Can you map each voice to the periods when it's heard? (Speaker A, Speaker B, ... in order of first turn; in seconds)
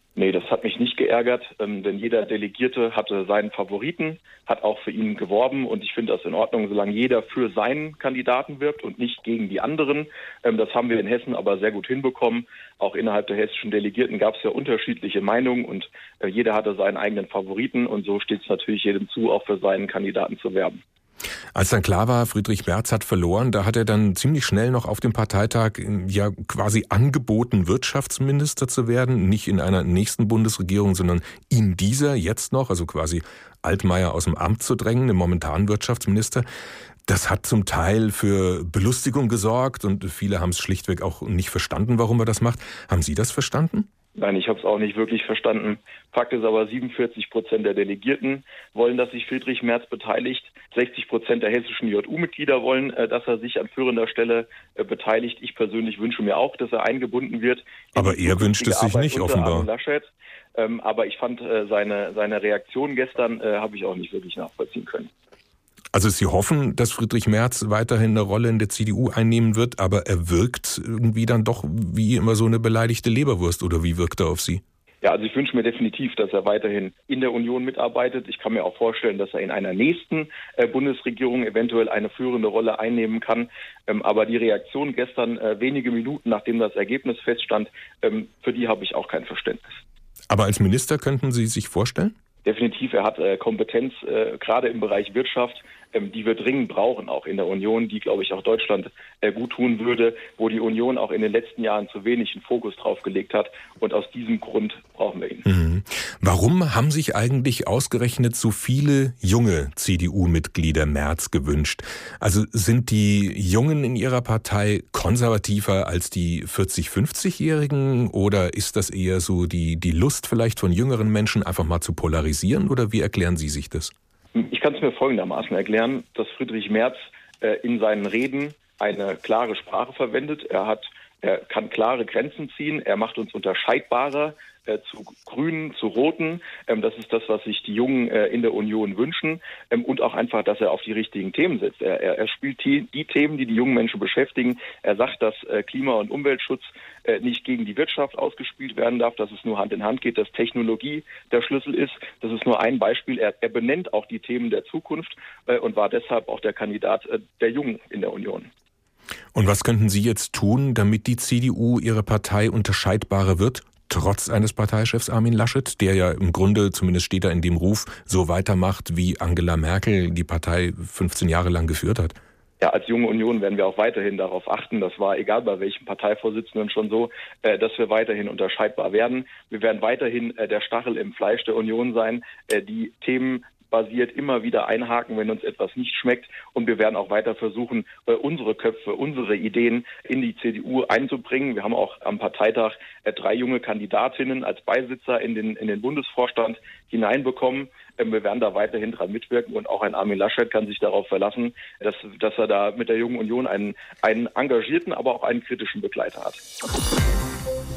Speaker A: 0.1-20.8, 44.1-65.1, 75.0-89.8, 92.4-105.4, 124.3-158.5, 172.6-206.4
Speaker B: 21.5-36.5, 37.1-43.9, 57.9-59.7, 65.9-74.6, 90.3-92.1, 105.4-123.9, 159.3-172.2